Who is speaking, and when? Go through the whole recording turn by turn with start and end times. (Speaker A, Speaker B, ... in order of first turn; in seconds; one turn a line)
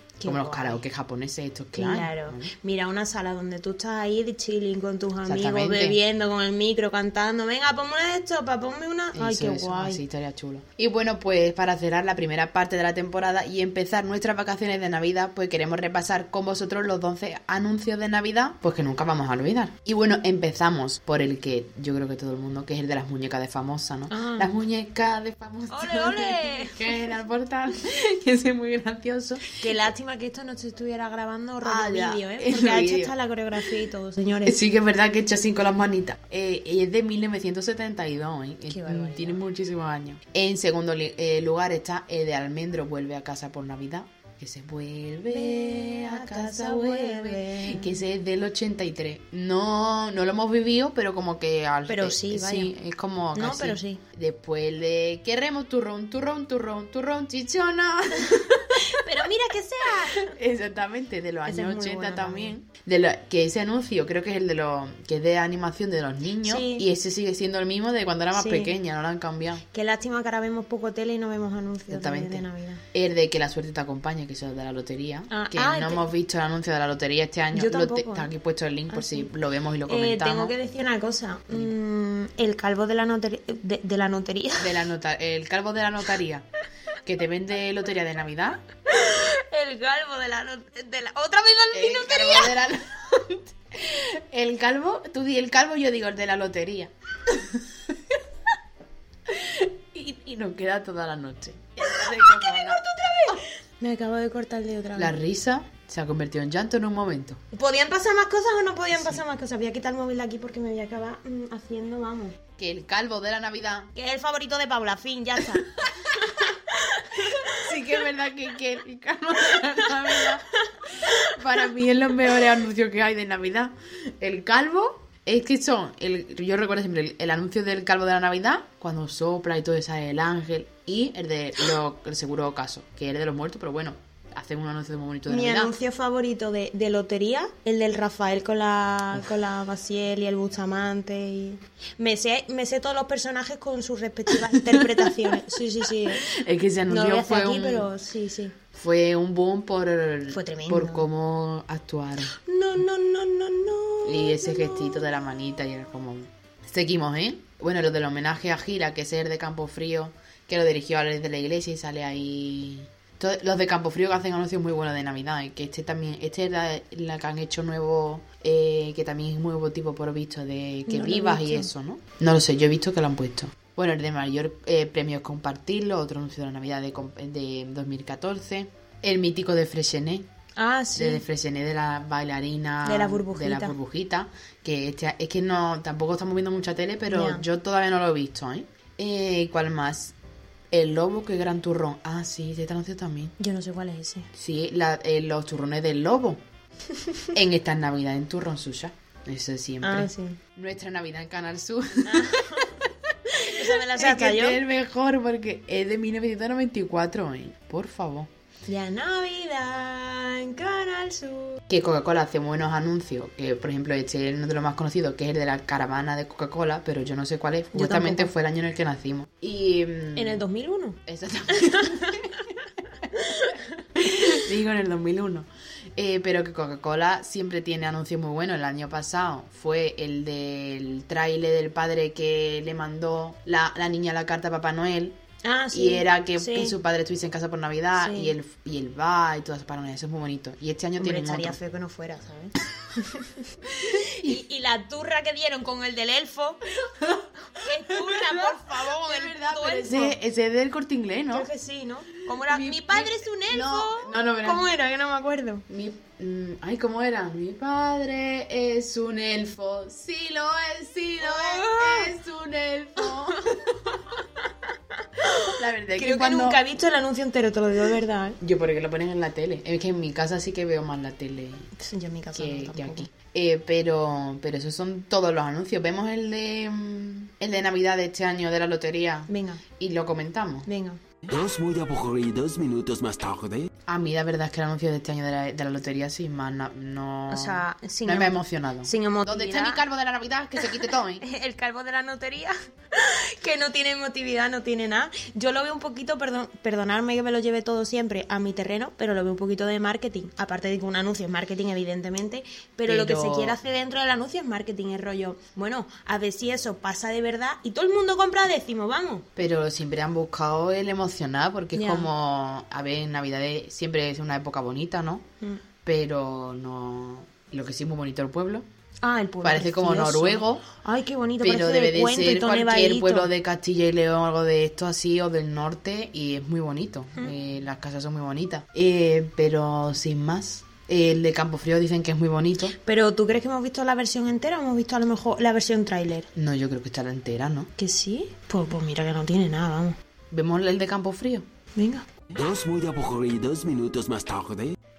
Speaker A: 0.2-0.8
Speaker B: 0.2-2.5
Speaker A: 1.8-10.0
Speaker B: 5.2-6.0
Speaker B: 9.1-29.4
Speaker A: 24.1-24.5
Speaker A: 25.7-27.0
Speaker A: 29.6-34.6
Speaker B: 31.6-33.1
Speaker B: 34.5-59.0
Speaker A: 38.7-39.4
Speaker A: 45.3-48.0
Speaker A: 51.9-52.7
Speaker A: 53.3-54.0
Speaker A: 58.7-60.3
Speaker B: 60.1-69.6
Speaker A: 61.5-62.5
Speaker A: 66.4-66.9
Speaker A: 68.3-68.7
Speaker A: 69.7-72.8
Speaker B: 71.9-80.5
Speaker A: 75.3-76.0
Speaker A: 77.5-78.3
Speaker A: 78.9-79.3
Speaker A: 79.9-84.8
Speaker B: 84.6-86.5
Speaker B: 87.0-88.6
Speaker A: 88.9-92.6
Speaker B: 91.7-97.9
Speaker B: 99.3-103.4
Speaker A: 101.9-105.2
Speaker B: 104.9-107.4
Speaker A: 107.5-112.4
Speaker B: 108.9-109.2
Speaker B: 112.6-113.9
Speaker A: 113.9-117.7
Speaker B: 117.2-135.7
Speaker A: 121.0-121.4
Speaker A: 135.3-146.3
Speaker B: 144.5-145.1
Speaker B: 146.1-147.9
Speaker A: 146.9-148.6
Speaker B: 148.7-152.3
Speaker A: 150.3-151.1
Speaker A: 152.3-155.1
Speaker B: 154.0-180.3
Speaker A: 170.9-171.7
Speaker A: 180.6-181.2
Speaker B: 180.9-190.1
Speaker A: 182.8-183.8
Speaker A: 187.1-187.4
Speaker B: 190.7-193.3
Speaker A: 193.4-194.3
Speaker B: 194.3-196.4
Speaker B: 197.3-202.8
Speaker A: 199.8-200.4
Speaker A: 202.0-204.6
Speaker B: 203.5-208.3
Speaker A: 208.7-211.6
Speaker B: 211.7-220.4
Speaker A: 217.7-218.3
Speaker A: 220.1-221.0
Speaker B: 221.1-222.5
Speaker A: 221.5-222.3
Speaker A: 223.2-223.5
Speaker B: 223.9-235.2
Speaker A: 235.4-236.8
Speaker B: 235.7-241.6
Speaker A: 237.9-238.3
Speaker A: 241.0-246.7
Speaker B: 243.7-244.4
Speaker B: 247.0-251.5
Speaker A: 247.5-250.2
Speaker A: 251.3-255.7
Speaker B: 252.3-254.7
Speaker B: 255.7-263.9
Speaker A: 261.2-262.1
Speaker A: 265.2-268.4
Speaker B: 265.4-266.6
Speaker B: 268.4-271.7
Speaker A: 271.8-273.1
Speaker B: 272.3-280.7
Speaker A: 279.3-279.6
Speaker A: 280.7-281.0
Speaker C: 281.3-283.7
Speaker B: 283.9-291.2
Speaker A: 287.3-289.8
Speaker A: 291.2-309.2
Speaker B: 302.9-303.6
Speaker B: 309.4-315.2
Speaker A: 311.7-312.1
Speaker B: 315.8-318.6
Speaker A: 319.0-323.3
Speaker B: 319.4-320.6
Speaker B: 321.4-332.7
Speaker A: 332.8-336.3
Speaker B: 336.3-337.7
Speaker A: 337.8-339.9
Speaker B: 340.3-341.4
Speaker A: 341.8-342.0
Speaker C: 342.3-344.7